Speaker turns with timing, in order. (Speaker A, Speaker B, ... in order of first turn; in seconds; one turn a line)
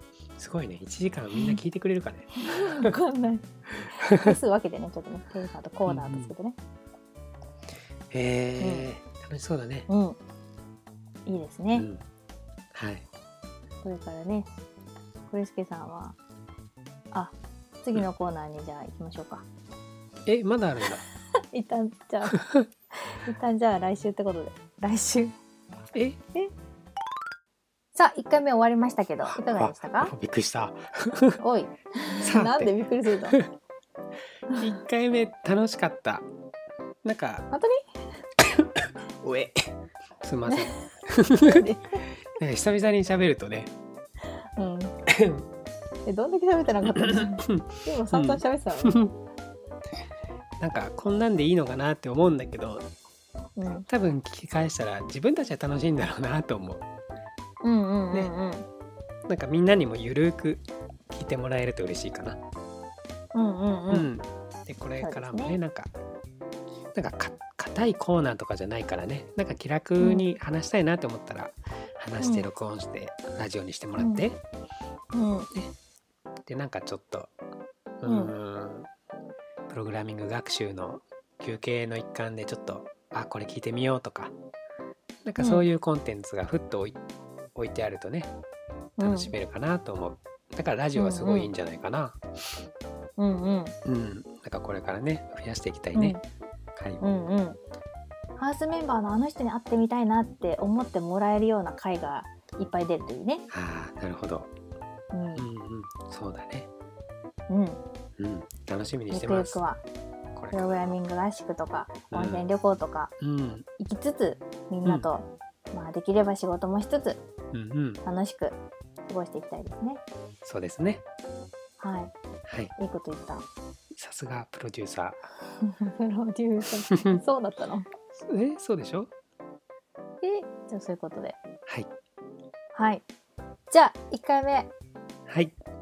Speaker A: 0.4-3.0
Speaker B: 2.4-3.4
Speaker A: 3.7-4.4
Speaker B: 3.9-6.6
Speaker A: 5.8-6.3
Speaker A: 8.1-9.9
Speaker B: 8.6-8.9
Speaker B: 9.9-10.2
Speaker B: 11.2-11.9
Speaker A: 12.7-13.0
Speaker B: 13.8-14.5
Speaker B: 15.3-16.2
Speaker B: 17.1-19.4
Speaker A: 20.2-21.0
Speaker B: 21.5-22.4
Speaker A: 22.3-22.6
Speaker B: 23.1-25.3
Speaker A: 25.9-26.2
Speaker B: 27.9-30.1
Speaker A: 29.2-31.4
Speaker B: 31.4-33.4
Speaker A: 32.2-32.8
Speaker A: 34.5-36.2
Speaker A: 37.0-37.5
Speaker B: 37.5-37.8
Speaker A: 38.4-39.6
Speaker A: 40.2-41.6
Speaker B: 41.4-42.0
Speaker A: 42.4-43.7
Speaker B: 44.6-44.9
Speaker A: 45.0-45.4
Speaker B: 46.0-49.0
Speaker A: 47.0-49.1
Speaker A: 50.6-52.8
Speaker B: 53.6-53.9
Speaker A: 53.9-56.8
Speaker B: 57.6-58.6
Speaker A: 59.3-62.4
Speaker B: 63.3-64.1
Speaker A: 63.9-65.9
Speaker B: 65.0-65.6
Speaker A: 66.9-74.4
Speaker B: 70.0-70.3
Speaker B: 72.2-72.5
Speaker B: 74.0-74.2
Speaker B: 75.1-75.5
Speaker A: 76.5-77.3
Speaker A: 78.0-78.9
Speaker B: 78.0-78.3
Speaker A: 79.7-84.3
Speaker A: 85.2-87.0
Speaker B: 85.4-85.7
Speaker A: 87.5-88.3
Speaker B: 89.0-89.3
Speaker A: 89.0-92.2
Speaker B: 90.9-91.5
Speaker B: 93.2-93.7
Speaker A: 93.8-96.2
Speaker B: 95.9-96.2
Speaker A: 96.8-97.1
Speaker B: 97.0-97.6
Speaker B: 98.4-103.4
Speaker A: 103.5-104.5
Speaker B: 105.1-105.4
Speaker A: 105.3-106.7
Speaker B: 107.5-107.8
Speaker A: 108.2-109.6
Speaker B: 109.1-109.8
Speaker A: 110.3-110.9
Speaker B: 110.5-113.1
Speaker A: 112.1-112.4
Speaker A: 113.2-113.7
Speaker B: 113.8-117.2
Speaker A: 117.5-118.0
Speaker B: 118.0-120.0
Speaker A: 120.4-121.0
Speaker B: 121.8-122.1
Speaker A: 122.5-122.7
Speaker B: 122.8-123.5
Speaker A: 124.0-125.2
Speaker B: 125.6-127.8
Speaker A: 126.9-127.2
Speaker A: 128.3-129.1
Speaker B: 130.2-131.4
Speaker B: 132.7-133.0
Speaker B: 133.7-134.7
Speaker A: 135.3-135.6